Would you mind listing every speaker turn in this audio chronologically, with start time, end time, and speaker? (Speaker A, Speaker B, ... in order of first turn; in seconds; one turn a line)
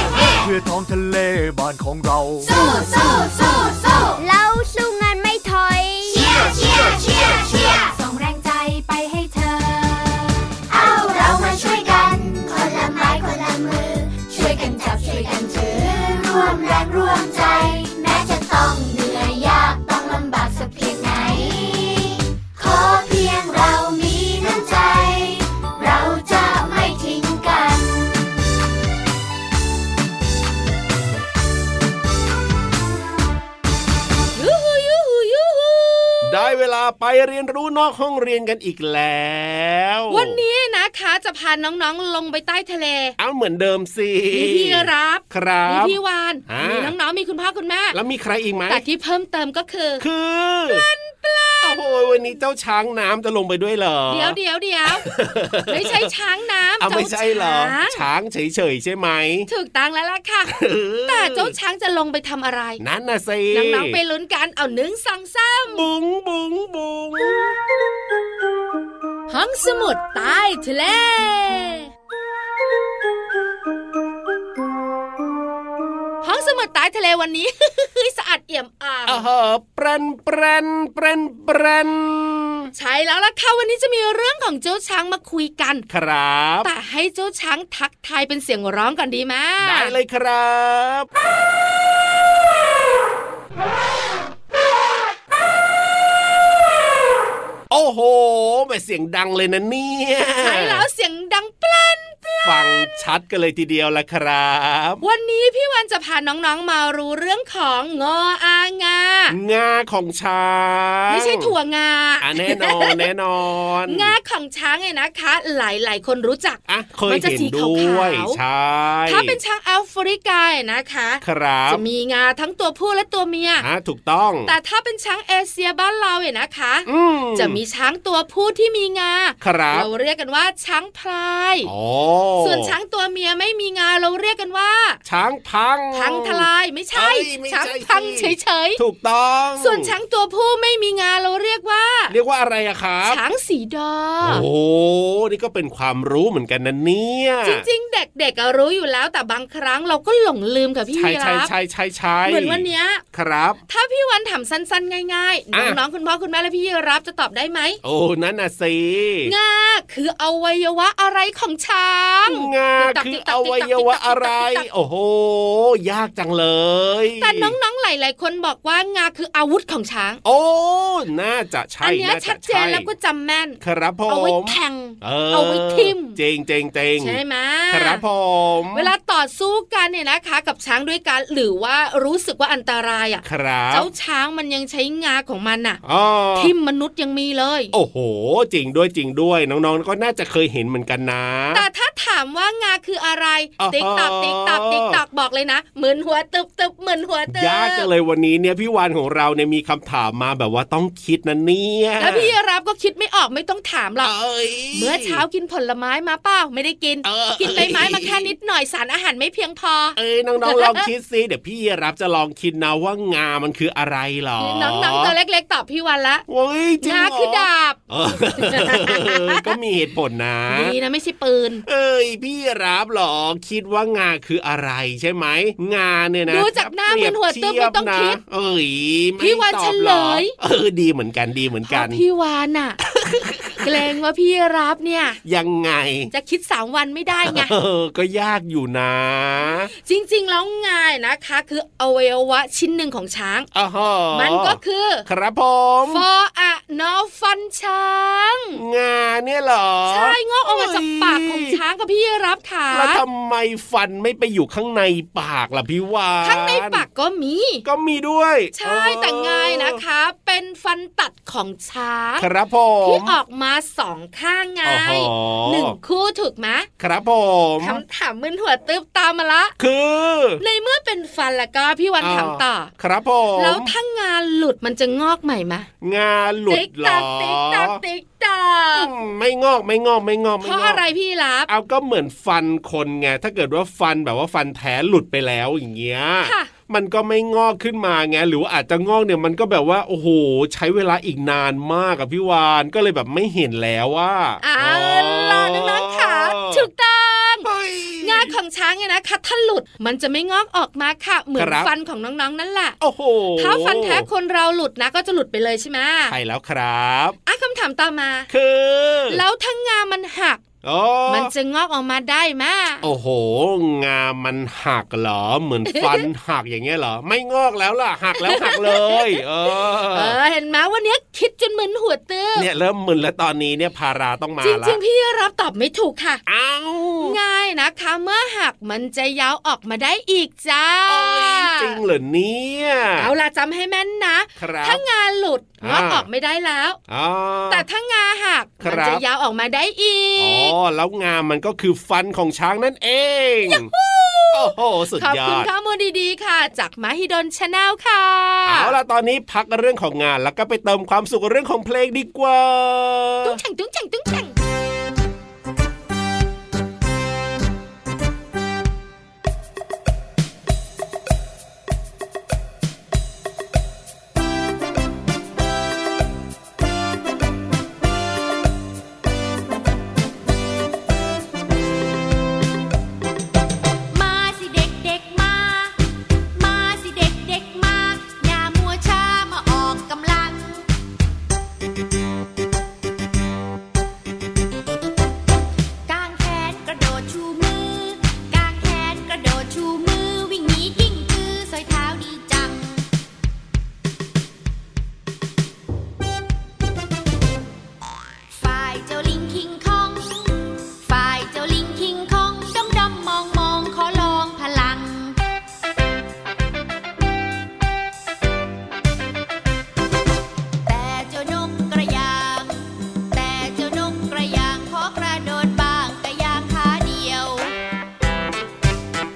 Speaker A: 0.4-2.5
Speaker B: 2.4-4.2
Speaker C: 4.2-6.4
Speaker B: 6.1-8.8
Speaker D: 8.0-9.7
Speaker B: 9.4-28.1
Speaker E: 34.3-36.5
Speaker F: 36.2-40.4
Speaker E: 40.1-43.1
Speaker F: 43.2-46.0
Speaker E: 44.3-48.0
Speaker F: 46.5-46.9
Speaker F: 47.9-48.8
Speaker E: 48.7-50.0
Speaker F: 50.0-50.8
Speaker E: 50.7-52.4
Speaker F: 51.6-54.4
Speaker E: 54.1-55.1
Speaker F: 54.9-56.1
Speaker E: 55.7-58.0
Speaker F: 56.8-59.5
Speaker E: 59.5-62.8
Speaker F: 60.5-61.5
Speaker F: 62.8-64.0
Speaker E: 63.5-65.8
Speaker F: 65.7-67.5
Speaker E: 69.3-71.9
Speaker E: 76.2-79.2
Speaker F: 79.1-82.7
Speaker E: 82.7-85.8
Speaker F: 85.9-86.7
Speaker E: 86.6-89.9
Speaker F: 89.6-91.1
Speaker F: 97.7-100.8
Speaker E: 100.4-103.0
Speaker F: 102.4-105.0
Speaker E: 105.0-109.3
Speaker F: 109.3-111.5
Speaker E: 111.1-113.0
Speaker F: 112.2-114.1
Speaker E: 113.9-118.4
Speaker F: 116.7-119.3
Speaker E: 119.1-123.6
Speaker F: 121.2-121.8
Speaker F: 123.6-124.5
Speaker E: 124.5-131.7
Speaker F: 126.9-127.6
Speaker F: 129.4-129.9
Speaker F: 131.6-132.7
Speaker E: 132.4-135.0
Speaker F: 135.1-139.9
Speaker E: 135.9-138.8
Speaker E: 139.6-142.1
Speaker F: 142.1-143.2
Speaker E: 143.0-144.4
Speaker F: 144.2-147.6
Speaker E: 147.4-151.5
Speaker F: 150.9-153.6
Speaker E: 152.2-153.0
Speaker E: 153.7-157.8
Speaker F: 155.5-155.8
Speaker F: 157.8-159.3
Speaker E: 159.2-164.7
Speaker F: 162.2-167.5
Speaker E: 167.2-170.2
Speaker F: 170.2-172.9
Speaker E: 171.8-176.2
Speaker F: 173.6-178.9
Speaker E: 177.0-178.0
Speaker E: 178.7-185.8
Speaker F: 183.2-183.9
Speaker F: 185.8-186.5
Speaker E: 186.3-187.7
Speaker F: 187.7-191.6
Speaker E: 191.5-197.9
Speaker F: 193.6-195.0
Speaker F: 197.3-202.3
Speaker E: 202.0-204.1
Speaker F: 204.0-205.2
Speaker E: 204.7-210.9
Speaker F: 207.0-208.3
Speaker F: 209.9-215.1
Speaker E: 214.4-216.2
Speaker F: 216.3-220.7
Speaker E: 216.8-219.5
Speaker E: 220.5-221.6
Speaker F: 221.7-232.0
Speaker E: 226.3-228.2
Speaker E: 229.2-230.3
Speaker E: 231.7-232.8
Speaker F: 232.9-233.7
Speaker E: 233.6-235.2
Speaker F: 235.2-236.1
Speaker E: 236.1-237.5
Speaker F: 237.2-239.7
Speaker E: 239.4-243.5
Speaker F: 243.5-246.0
Speaker E: 244.1-245.1
Speaker E: 245.9-248.6
Speaker F: 248.6-251.6
Speaker E: 249.9-253.0
Speaker F: 252.7-256.8
Speaker E: 256.2-257.6
Speaker F: 257.6-259.8
Speaker E: 258.5-262.3
Speaker F: 262.2-263.1
Speaker E: 262.8-266.7
Speaker F: 264.6-265.8
Speaker F: 266.8-267.8
Speaker E: 267.6-269.5
Speaker F: 269.6-270.4
Speaker E: 270.4-272.7
Speaker F: 272.0-273.7
Speaker E: 273.4-275.7
Speaker F: 275.8-277.8
Speaker E: 276.5-278.9
Speaker F: 278.7-280.8
Speaker E: 280.4-281.5
Speaker F: 281.5-296.7
Speaker E: 286.2-286.5
Speaker E: 294.4-297.5
Speaker F: 297.4-298.3
Speaker E: 298.0-302.8
Speaker F: 301.4-301.7
Speaker F: 302.8-304.1
Speaker E: 303.4-306.1
Speaker F: 306.1-307.2
Speaker E: 307.2-308.3
Speaker F: 308.3-309.2
Speaker E: 309.1-310.4
Speaker F: 310.6-311.3
Speaker E: 311.1-312.8
Speaker F: 312.8-320.1
Speaker E: 315.7-316.1
Speaker E: 318.2-319.2
Speaker E: 319.9-322.5
Speaker F: 322.4-324.8
Speaker E: 324.4-326.2
Speaker F: 326.2-327.2
Speaker E: 327.0-331.8
Speaker F: 330.9-333.1
Speaker E: 333.0-336.8
Speaker F: 334.4-334.8
Speaker F: 335.6-336.0
Speaker F: 336.9-337.6
Speaker E: 337.5-340.5
Speaker F: 338.6-339.0
Speaker F: 340.2-343.7
Speaker E: 343.5-348.8
Speaker F: 344.3-345.5
Speaker F: 348.4-353.4
Speaker E: 353.2-354.4
Speaker D: 373.9-375.7
Speaker D: 376.3-380.6
Speaker D: 385.9-392.9
Speaker D: 398.3-405.2
Speaker D: 410.6-417.5